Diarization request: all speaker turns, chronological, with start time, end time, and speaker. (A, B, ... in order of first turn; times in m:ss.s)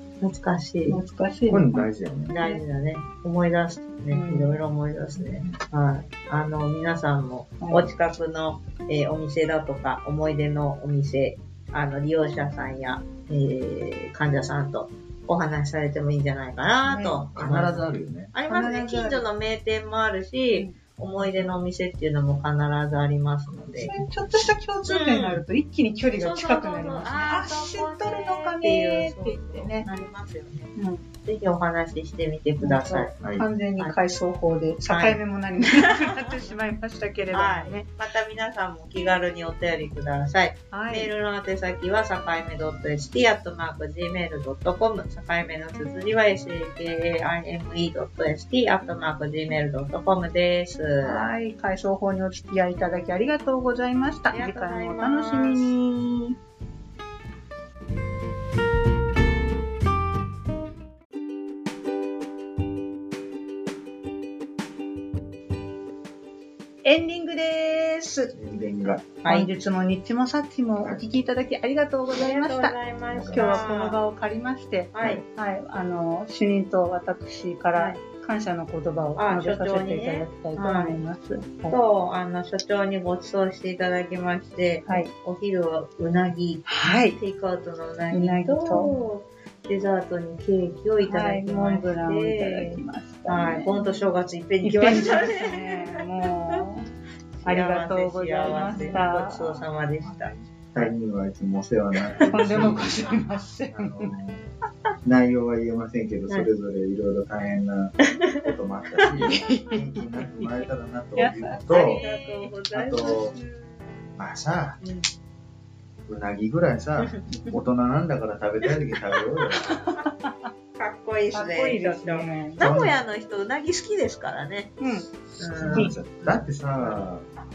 0:00.2-0:01.0 A
0:00.9-0:01.9 B
0:01.5-0:02.4 C
0:02.3-0:23.9 A
0:04.1-0:04.6 B
0:05.2-0:05.6 C
0:07.6-0:07.9 B
0:16.8-0:17.3 B
0:17.3-0:18.3 C
0:18.5-0:19.2 B
0:20.5-0:21.5 B
0:23.5-0:24.5 C
0:23.8-0:29.9 B
0:24.8-0:25.4 A
0:26.2-0:33.2 A
0:30.8-0:31.0 B
0:32.6-0:37.9 B
0:33.2-0:33.5 C
0:34.9-0:35.2 A
0:35.8-0:36.3 A
0:37.3-0:51.3 A
0:40.7-0:41.1 B
0:51.0-0:56.4 B
0:54.3-0:55.7 A
1:06.8-1:08.3 B
1:08.3-1:09.0 C
1:09.2-1:09.5 A
1:09.2-1:21.8 B
1:12.1-1:14.0 A
1:13.1-1:13.7 C
1:14.9-1:15.2 A
1:17.7-1:18.0 A
1:19.2-1:21.0 A
1:21.7-1:36.6 A
1:24.8-1:25.1 B
1:26.7-1:27.2 B
1:28.1-1:29.0 B
1:31.0-1:34.1 B
1:34.6-1:36.9 B
1:37.4-1:40.9 A
1:37.4-1:39.6 B
1:40.0-1:43.1 C
1:42.2-1:44.1 B
1:43.7-1:44.4 C
1:45.0-1:52.0 C
1:48.0-1:49.1 A
1:49.2-1:50.5 B
1:51.2-1:53.5 B
1:51.7-1:53.2 A
1:52.7-1:53.3 C
1:54.2-1:54.8 C
1:54.8-1:55.1 A
1:56.1-1:59.7 C
1:57.0-1:57.5 A
1:59.6-2:00.3 B
2:00.8-2:04.8 A
2:01.3-2:02.6 B
2:02.6-2:03.0 C
2:04.8-2:05.1 B
2:05.4-2:07.0 A
2:05.5-2:07.3 C